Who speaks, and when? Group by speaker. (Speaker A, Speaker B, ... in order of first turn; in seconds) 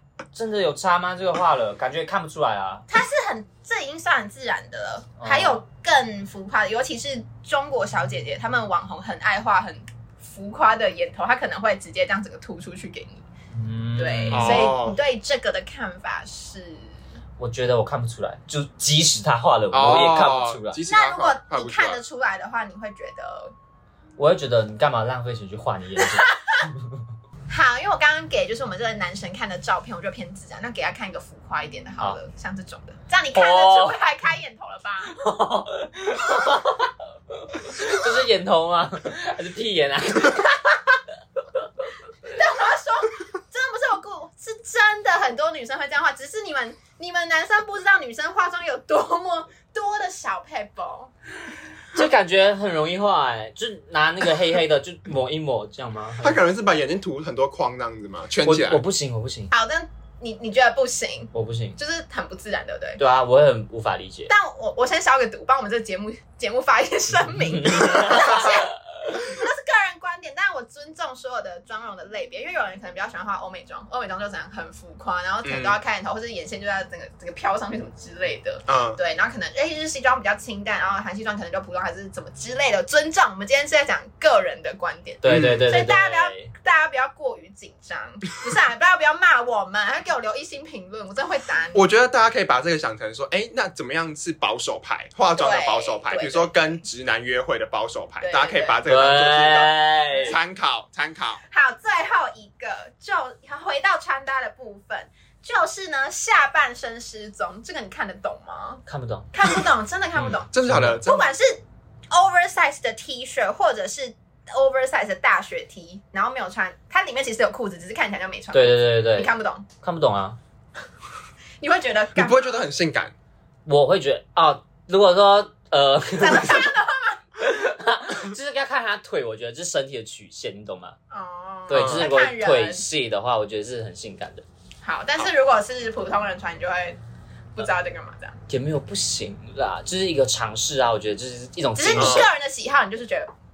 Speaker A: 0.3-2.9, 5.2-5.6, 13.5-14.7, 17.4-20.8, 24.2-27.0, 33.3-34.0, 35.1-41.0, 51.9-56.4, 58.4-59.5, 61.3-61.8, 63.0-64.3, 67.3-68.6, 85.2-86.5, 98.9-100.3, 108.8-109.3, 110.1-111.0, 118.5-119.3, 119.8-120.4, 123.7-126.7, 127.4-131.0, 131.7-134.4, 138.5-142.3
Speaker B: 2.9-13.2, 14.0-17.0, 20.9-23.5, 26.0-26.6, 27.5-35.1, 42.3-51.1, 59.5-63.0, 64.3-91.8, 95.4-96.5, 98.2-98.8, 100.1-100.4, 101.5-119.6, 121.6-122.6, 126.2-127.2, 131.1-132.9, 134.8-137.0, 137.6-138.4, 141.8-143.3
Speaker C: 14.3-15.0, 19.7-22.0, 56.2-58.8, 75.4-75.8, 78.7-79.0, 85.3-85.7, 91.7-101.4, 110.5-111.3, 122.1-123.1, 131.7-132.1, 141.9-142.3